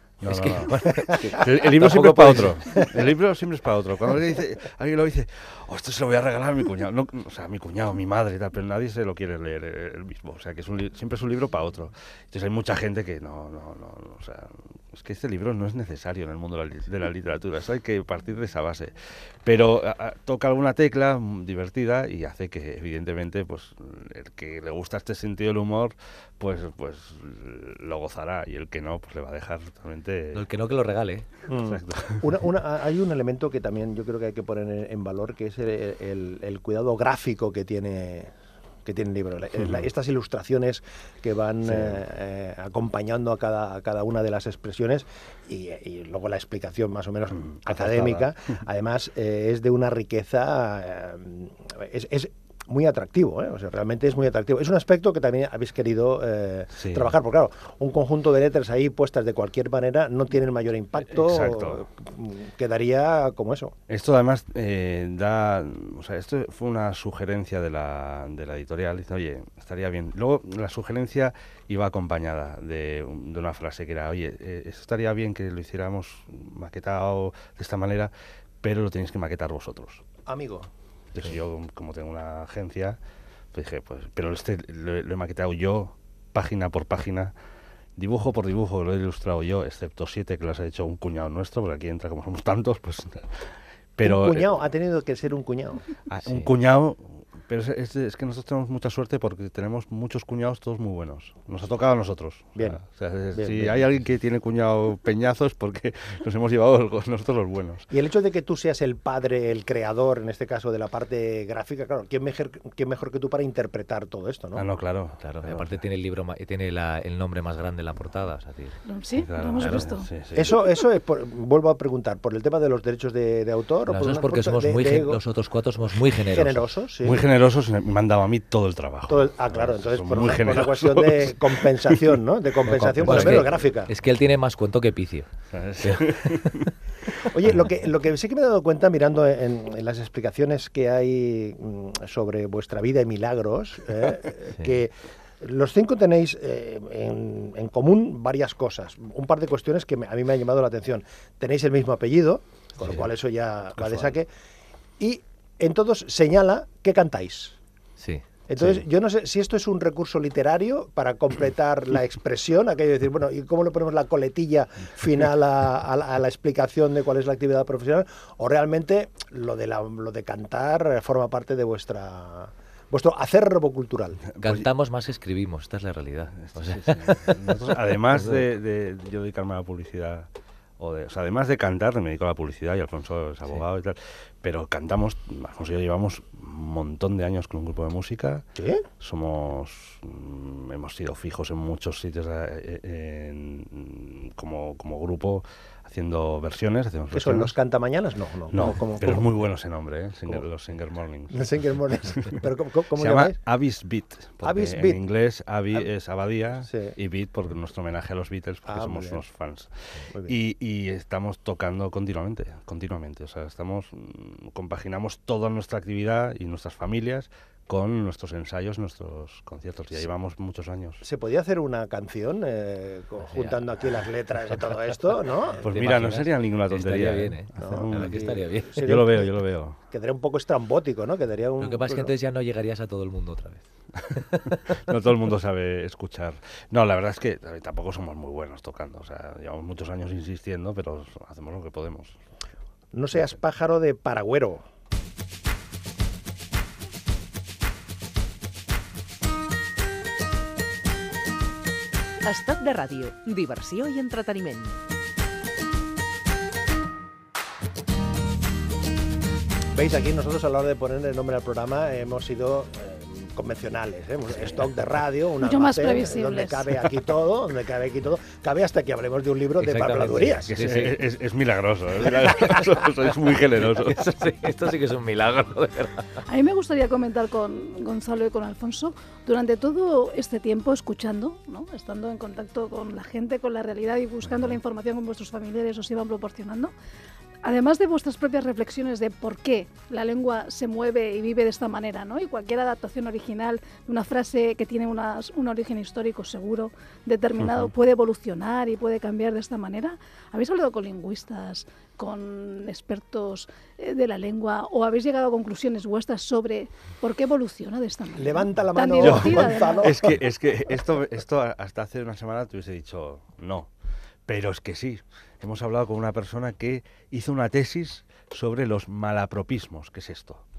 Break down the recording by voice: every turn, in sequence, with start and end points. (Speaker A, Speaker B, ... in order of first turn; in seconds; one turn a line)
Speaker A: 0.2-30.5
Speaker B: 0.2-2.6
Speaker C: 0.8-1.4
Speaker C: 2.8-3.0
Speaker B: 30.3-31.3
Speaker C: 31.5-63.7
Speaker A: 31.5-32.3
Speaker A: 41.7-42.0
Speaker A: 47.4-48.3
Speaker A: 56.8-57.1
Speaker A: 61.1-61.9
Speaker A: 63.9-80.0
Speaker C: 80.3-80.7
Speaker A: 81.1-83.0
Speaker A: 83.5-87.3
Speaker A: 88.0-94.5
Speaker C: 94.0-95.9
Speaker A: 96.1-107.9
Speaker B: 96.2-96.5
Speaker C: 102.6-102.8
Speaker C: 103.3-103.8
Speaker C: 107.9-114.7
Speaker A: 114.5-115.8
Speaker B: 115.2-118.8
Speaker D: 118.9-120.1
Speaker A: 119.2-120.6
Speaker B: 119.6-119.8
Speaker C: 120.3-125.2
Speaker B: 123.9-126.7
Speaker C: 126.1-127.2
Speaker A: 127.0-132.0
Speaker C: 129.1-133.9
Speaker B: 132.7-136.7
Speaker A: 133.0-133.4
Speaker A: 135.5-136.5
Speaker C: 137.3-154.3
Speaker A: 153.8-154.1
Speaker C: 155.0-157.6
Speaker B: 158.0-158.2
Speaker C: 158.5-174.2
Speaker A: 174.3-174.7
Speaker B: 174.4-177.5
Speaker A: 176.4-188.4
Speaker B: 178.1-178.4
Speaker C: 188.6-188.9
Speaker A: 189.0-197.5
Speaker C: 197.1-199.3
Speaker A: 198.5-201.5
Speaker C: 201.3-203.4
Speaker A: 202.1-202.4
Speaker A: 202.9-221.0
Speaker C: 204.4-205.0
Speaker C: 206.7-207.0
Speaker C: 208.7-209.2
Speaker C: 210.1-210.4
Speaker C: 221.0-225.7
Speaker B: 223.2-223.6
Speaker A: 225.6-229.8
Speaker B: 225.6-229.0
Speaker C: 227.6-232.1
Speaker B: 231.6-234.6
Speaker A: 234.7-242.2
Speaker C: 242.9-244.7
Speaker E: 252.2-254.8
Speaker C: 259.7-270.6
Speaker D: 265.4-266.7
Speaker B: 269.6-271.0
Speaker A: 270.5-274.1
Speaker B: 273.6-276.2
Speaker D: 276.3-286.7
Speaker D: 287.4-310.0
Speaker C: 308.1-310.2
Speaker A: 309.0-313.7
Speaker A: 314.3-320.4